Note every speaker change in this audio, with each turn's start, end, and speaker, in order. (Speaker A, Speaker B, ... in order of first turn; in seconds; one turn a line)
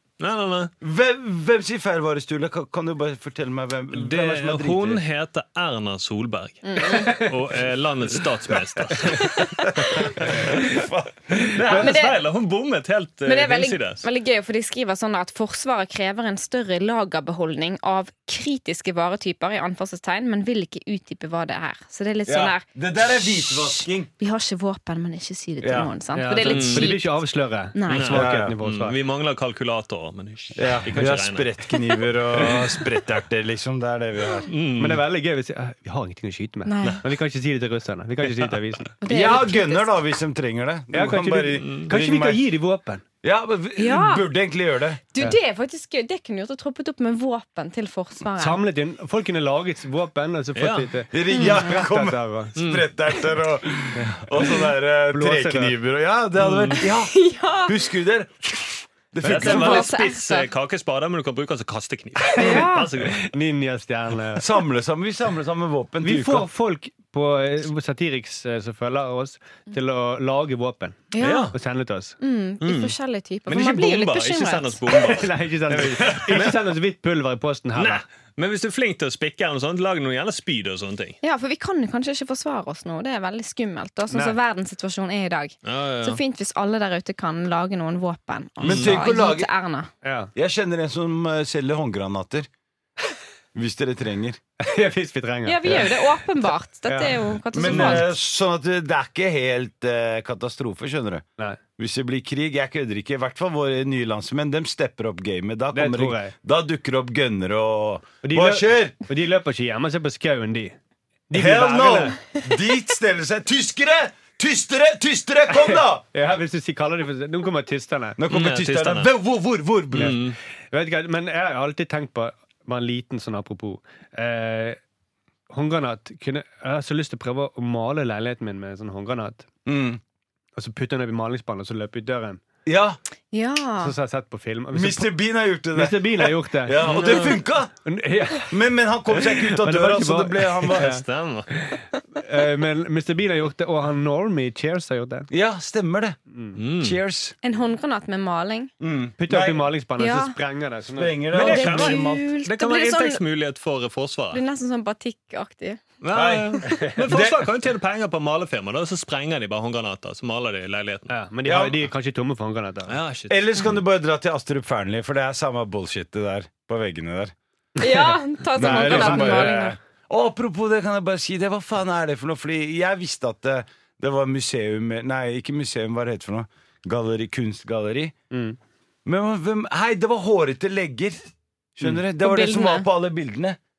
Speaker A: 0.2-0.7
Speaker B: 0.8-5.0
Speaker A: 3.9-9.6
Speaker C: 6.6-7.3
Speaker D: 7.0-7.3
Speaker C: 9.0-10.1
Speaker B: 9.8-11.9
Speaker A: 10.2-10.5
Speaker A: 11.4-14.0
Speaker C: 11.7-12.2
Speaker C: 13.2-22.6
Speaker B: 22.2-24.1
Speaker C: 23.4-27.1
Speaker B: 25.6-25.9
Speaker D: 26.1-28.9
Speaker A: 26.4-26.9
Speaker C: 27.7-28.1
Speaker A: 27.9-31.7
Speaker B: 28.1-28.5
Speaker B: 30.6-34.5
Speaker A: 32.4-32.6
Speaker A: 34.5-35.0
Speaker D: 34.8-38.9
Speaker C: 36.6-37.0
Speaker C: 39.0-39.9
Speaker B: 39.0-42.4
Speaker D: 40.9-43.0
Speaker A: 41.6-41.9
Speaker B: 43.2-45.0
Speaker C: 43.8-44.2
Speaker C: 45.1-48.6
Speaker D: 48.4-52.5
Speaker A: 50.5-50.9
Speaker B: 51.1-59.9
Speaker C: 51.3-51.7
Speaker A: 52.5-52.9
Speaker D: 53.9-55.7
Speaker A: 56.4-56.8
Speaker C: 56.8-57.8
Speaker A: 59.2-63.2
Speaker C: 59.3-60.5
Speaker C: 62.3-62.9
Speaker D: 62.4-64.5
Speaker B: 64.3-66.5
Speaker D: 66.0-72.2
Speaker C: 71.1-71.5
Speaker A: 71.2-71.5
Speaker C: 72.2-74.8
Speaker A: 72.6-72.9
Speaker A: 73.5-76.6
Speaker D: 74.9-78.0
Speaker A: 77.8-81.2
Speaker C: 81.2-89.9
Speaker D: 84.1-84.4
Speaker A: 85.6-86.2
Speaker A: 88.6-89.0
Speaker B: 88.6-89.5
Speaker D: 90.0-90.3
Speaker B: 90.3-92.5
Speaker B: 93.5-94.4
Speaker D: 94.6-96.0
Speaker C: 95.4-98.1
Speaker D: 96.9-97.9
Speaker B: 97.5-101.2
Speaker B: 101.8-108.9
Speaker D: 105.7-106.3
Speaker D: 108.2-110.8
Speaker D: 111.3-112.2
Speaker B: 111.3-116.0
Speaker D: 115.5-118.2
Speaker B: 118.2-120.2
Speaker A: 118.3-119.1
Speaker A: 120.0-120.4
Speaker D: 120.7-124.8
Speaker D: 125.5-129.5
Speaker B: 129.7-130.0
Speaker D: 130.6-132.4
Speaker B: 132.7-133.0
Speaker C: 133.3-133.9
Speaker D: 133.8-135.1
Speaker B: 134.7-137.7
Speaker D: 135.7-137.3
Speaker A: 136.8-137.4
Speaker D: 137.8-138.6
Speaker B: 138.4-140.9
Speaker D: 139.1-145.3
Speaker A: 140.7-141.5
Speaker B: 145.3-146.2
Speaker D: 146.3-146.6
Speaker A: 146.6-147.0
Speaker B: 146.8-147.3
Speaker C: 147.4-148.7
Speaker B: 148.8-149.7
Speaker D: 149.2-151.2
Speaker C: 150.0-150.3
Speaker B: 150.9-152.3
Speaker A: 151.3-154.4
Speaker C: 151.3-153.2
Speaker C: 154.3-155.8
Speaker A: 156.0-161.1
Speaker B: 156.1-157.5
Speaker D: 161.1-162.9
Speaker B: 161.4-161.9
Speaker A: 162.9-163.4
Speaker B: 163.3-167.3
Speaker C: 167.8-169.8
Speaker D: 167.8-169.5
Speaker B: 168.6-178.1
Speaker D: 178.3-178.6
Speaker B: 179.0-183.6
Speaker C: 182.2-182.9